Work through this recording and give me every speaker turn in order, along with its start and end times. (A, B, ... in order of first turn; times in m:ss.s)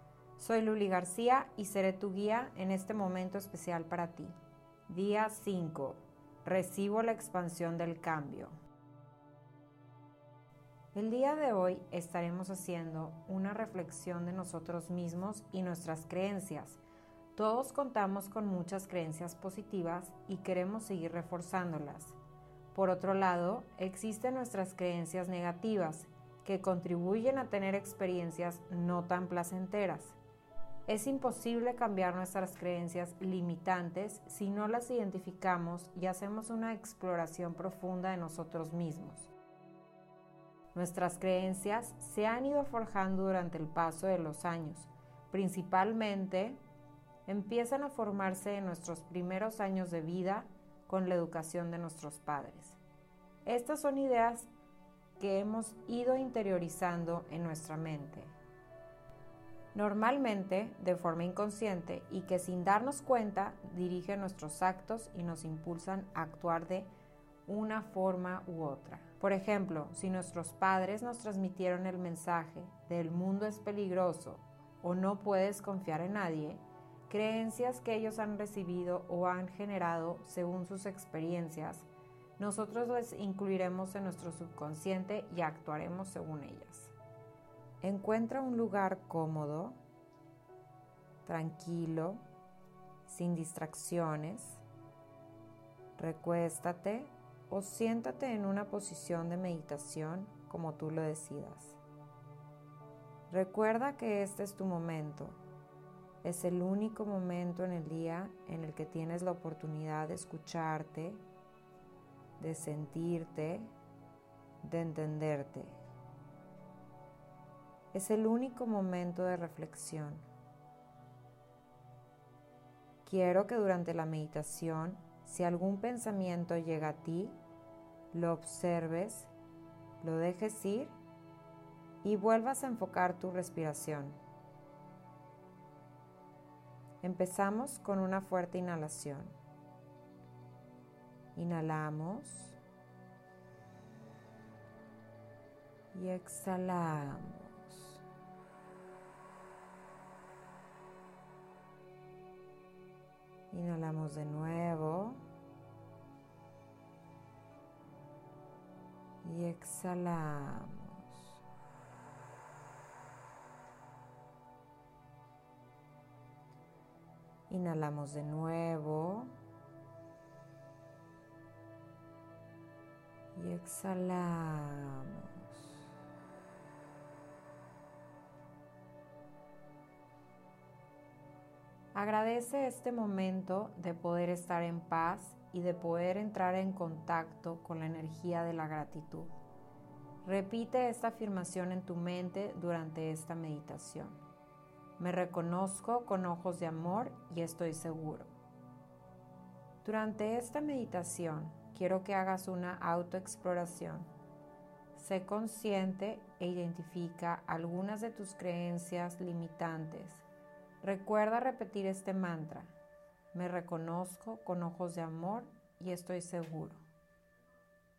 0:00.4-0:04.3 A
0:04.9-0:08.5 A
0:10.9-0:16.8 A
0:17.3-0:22.2 A
0:22.7-0:30.2 A
0:30.9-0:39.3 A
0:40.7-0:46.6 A
0:47.2-0:52.8 A
0:53.4-0:54.5 A
0:55.2-0:58.3 A
0:59.7-1:06.9 A
1:07.4-1:26.9 A
1:27.8-1:29.8 A
1:31.2-1:32.2 A
1:33.0-1:34.6 A
1:36.0-1:41.8 A
1:43.3-1:45.4 A
1:46.2-1:51.2 A
1:52.4-1:53.7 A
1:54.6-1:55.8 A
1:57.9-2:00.3 A
2:03.0-2:07.4 A
2:08.1-2:09.3 A
2:10.0-2:11.0 A
2:12.0-2:14.2 A
2:17.0-2:19.4 A
2:21.3-2:22.6 A
2:25.9-2:28.0 A
2:33.5-2:35.2 A
2:39.2-2:41.4 A
2:47.5-2:49.3 A
2:53.3-2:55.8 A
3:01.9-3:09.3 A
3:10.2-3:14.2 A
3:15.0-3:18.3 A
3:19.8-3:24.1 A
3:25.0-3:30.2 A
3:30.8-3:32.8 A
3:33.3-3:36.8 A